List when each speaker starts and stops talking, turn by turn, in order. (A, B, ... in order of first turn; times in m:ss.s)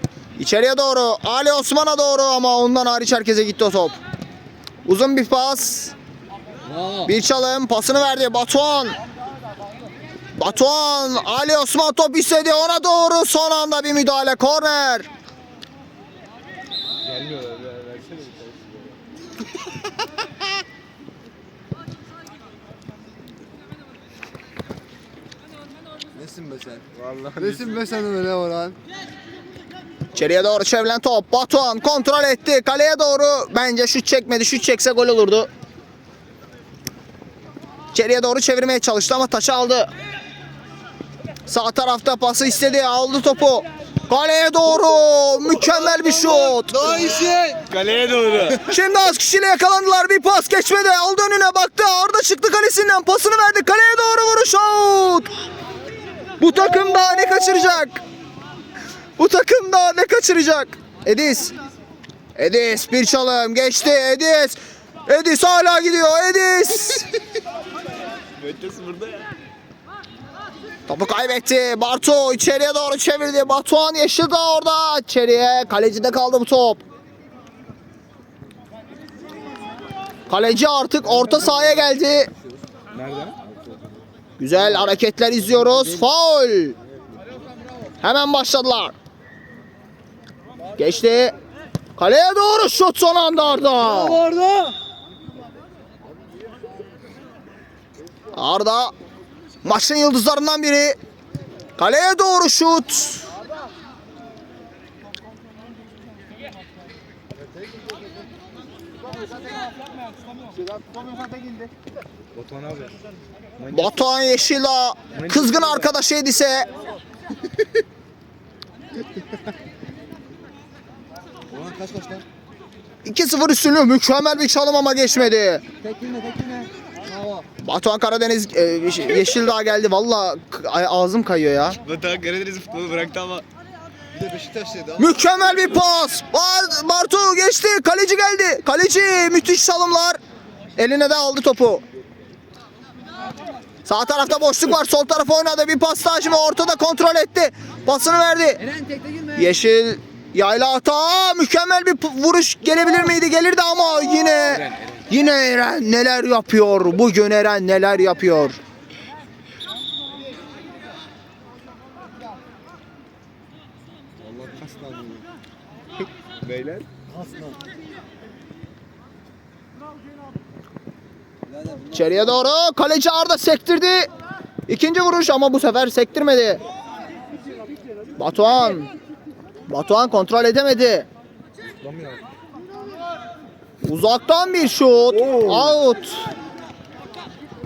0:00.4-0:04.0 A
0:04.8-0:05.9 A
0:06.6-0:07.1 B
0:07.0-0:09.0 A
0:10.4-0:15.1 A
0:17.2-0:18.4 B
0:17.3-0:18.2 C
0:26.1-0:28.8 B
0:27.0-0:27.8 C
0:30.1-0:35.5 A
0:37.9-0:39.9 A
0:41.5-0:47.1 A
0:46.7-0:47.7 B
0:47.7-0:48.6 C
0:48.6-0:55.3 A
0:56.4-0:58.0 A
0:59.2-1:01.5 A
1:02.4-1:07.1 A
1:08.4-1:09.2 C
1:10.9-1:16.8 A
1:20.3-1:22.3 A
1:22.9-1:23.3 C
1:24.4-1:26.7 A
1:25.7-1:26.0 B
1:28.0-1:28.9 A
1:30.8-1:31.3 A
1:32.0-1:34.2 A
1:33.8-1:34.7 B
1:38.3-1:38.9 A
1:39.6-1:41.0 A
1:41.8-1:43.3 A
1:52.3-1:52.9 C
1:53.6-1:53.9 C
1:53.7-1:56.7 A
1:55.1-1:55.8 C
2:01.5-2:02.2 B
2:03.0-2:05.6 A
2:05.8-2:07.4 B
2:07.6-2:11.8 A
2:11.8-2:13.4 C
2:14.1-2:15.2 B
2:15.0-2:20.2 A
2:20.8-2:21.8 A
2:23.8-2:28.6 A
2:28.6-2:29.5 B
2:29.4-2:38.6 A
2:44.2-2:45.3 B
2:46.4-2:46.8 C
2:47.0-2:47.6 B
2:51.5-2:52.4 B
2:51.9-2:54.1 A
2:54.7-2:56.6 A
2:58.2-2:58.9 A
2:59.7-3:01.1 A
3:01.8-3:02.2 B
3:03.8-3:06.2 A